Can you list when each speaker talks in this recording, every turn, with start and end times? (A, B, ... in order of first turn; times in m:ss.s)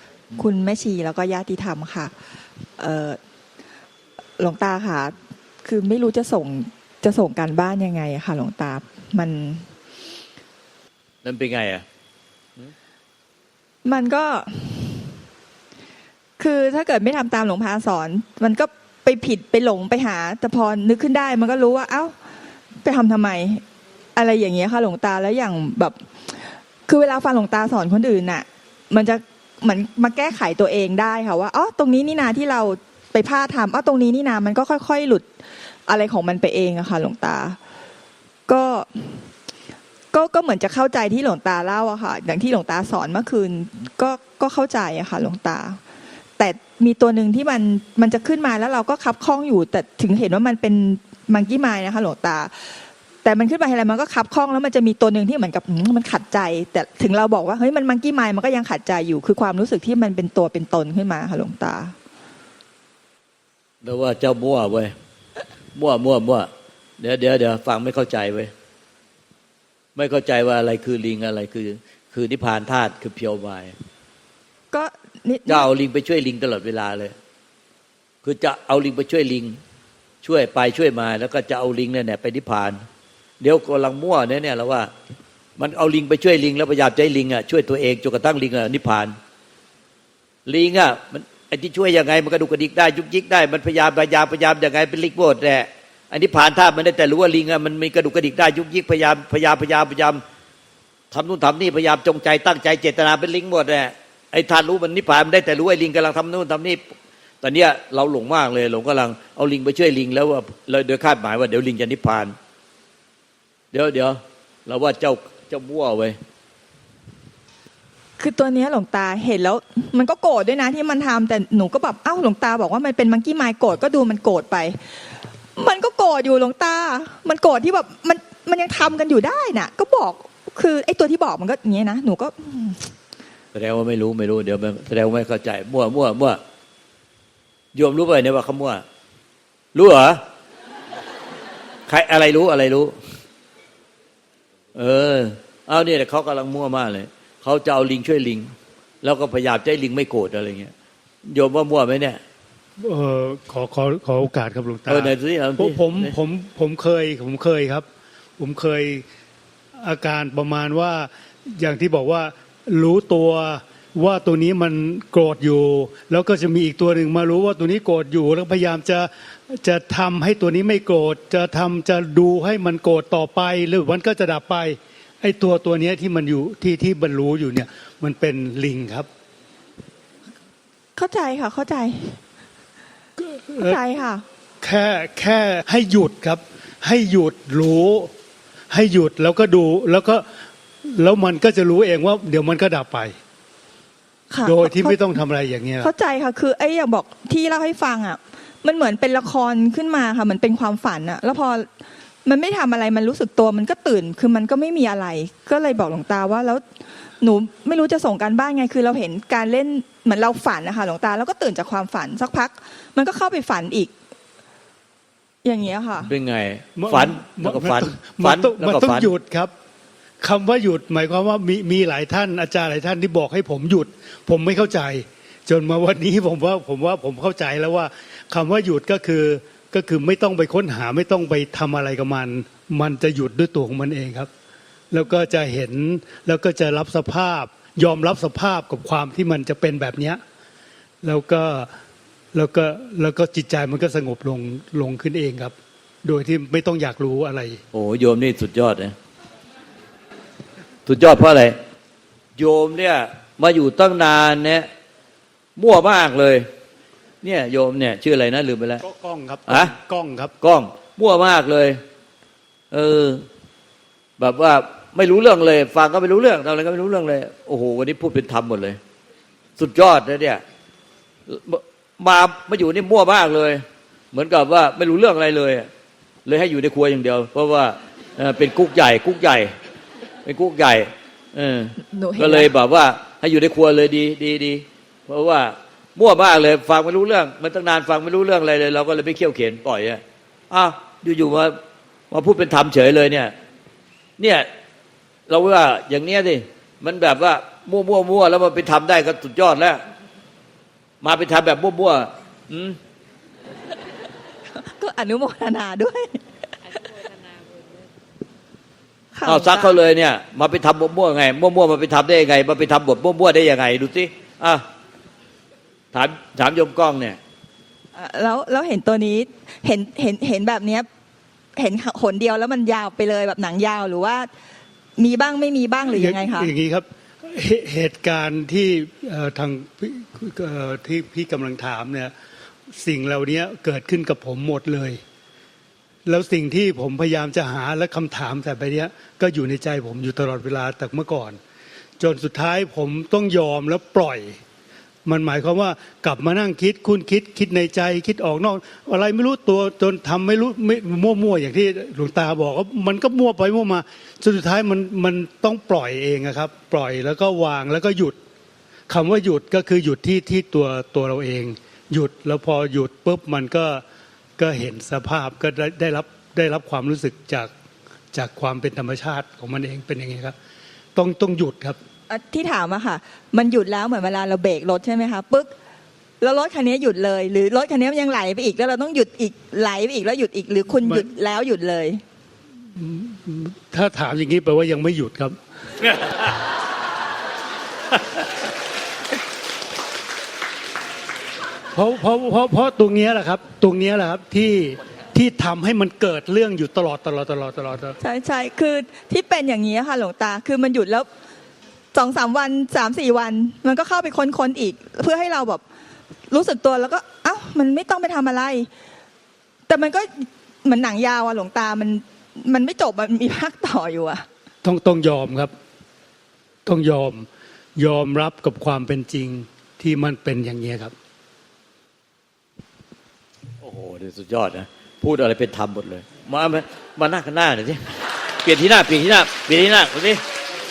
0:00.3-0:02.1 A
0:02.8-0:03.2 A
0:04.4-0:09.7 A
0:11.2-0:11.8 B
0:13.8-0:15.2 A
0:16.4-0:22.2 A
0:22.8-0:23.6 A
0:24.2-0:35.3 A
0:35.9-0:37.6 A
0:38.5-0:39.2 A
0:40.1-0:45.8 A
0:46.4-1:01.9 A
1:03.8-1:04.9 B
1:05.7-1:08.5 B
1:10.0-1:13.7 B
1:14.7-1:15.7 A
1:15.5-1:17.1 B
1:18.2-1:19.6 B
1:20.2-1:22.8 B
1:23.4-1:24.9 B
1:25.6-1:29.2 B
1:30.5-1:40.2 B
1:41.1-1:46.8 B
1:47.4-1:52.3 B
1:53.7-1:56.2 B
1:58.2-2:05.0 A
2:05.6-2:12.9 A
2:13.5-2:16.4 B
2:17.7-2:18.8 B
2:19.7-2:20.2 B
2:21.9-2:23.0 B
2:24.7-2:30.7 B
2:31.3-2:32.2 B
2:32.8-2:37.8 C
2:34.9-2:36.1 B
2:38.4-2:39.0 C
2:39.8-2:59.1 C
3:01.0-3:02.2 A
3:03.2-3:03.8 C
3:03.6-3:04.2 A
3:04.6-3:08.1 C
3:08.7-3:10.2 C
3:10.8-3:13.1 C
3:14.3-3:15.0 A
3:14.4-3:15.9 C
3:15.8-3:21.7 A
3:22.2-3:26.6 A
3:27.2-3:33.9 A
3:35.4-3:36.1 A
3:36.1-3:39.1 B
3:36.8-3:39.5 C
3:40.2-3:54.3 C
3:54.9-4:00.2 C
4:01.0-4:01.7 C
4:02.3-4:07.6 C
4:07.7-4:08.9 B
4:10.8-4:11.6 B
4:12.4-4:14.7 B
4:15.6-4:16.5 B
4:17.2-4:18.8 B
4:18.8-4:20.3 C
4:19.5-4:19.7 B
4:20.4-4:21.8 B
4:22.7-4:23.2 B
4:24.2-4:28.8 B
4:29.6-4:30.4 B
4:31.3-4:35.7 B
4:36.2-4:39.5 B
4:40.2-4:51.6 B
4:41.8-4:42.5 A
4:52.1-4:53.3 B
4:54.2-4:54.5 B
4:55.3-4:59.8 B
5:01.0-5:02.8 B
5:04.6-5:06.2 A
5:09.1-5:09.8 A
5:09.2-5:14.6 B
5:15.9-5:17.2 B
5:17.9-5:20.9 A
5:21.6-5:24.3 A
5:25.0-5:26.5 A
5:25.9-5:32.1 C
5:32.7-5:35.0 C
5:36.0-5:41.4 C
5:42.0-5:44.4 C
5:45.0-5:58.2 C
5:58.9-6:03.8 C
6:04.4-6:07.5 C
6:08.1-6:10.3 C
6:10.9-6:11.8 C
6:12.1-6:15.5 A
6:16.2-6:22.0 A
6:22.7-6:26.0 C
6:31.7-6:38.0 C
6:38.0-6:41.1 A
6:41.9-6:45.6 A
6:46.3-6:48.7 A
6:49.7-6:54.2 A
6:54.6-6:55.5 C
6:56.6-7:00.9 C
7:03.6-7:10.2 B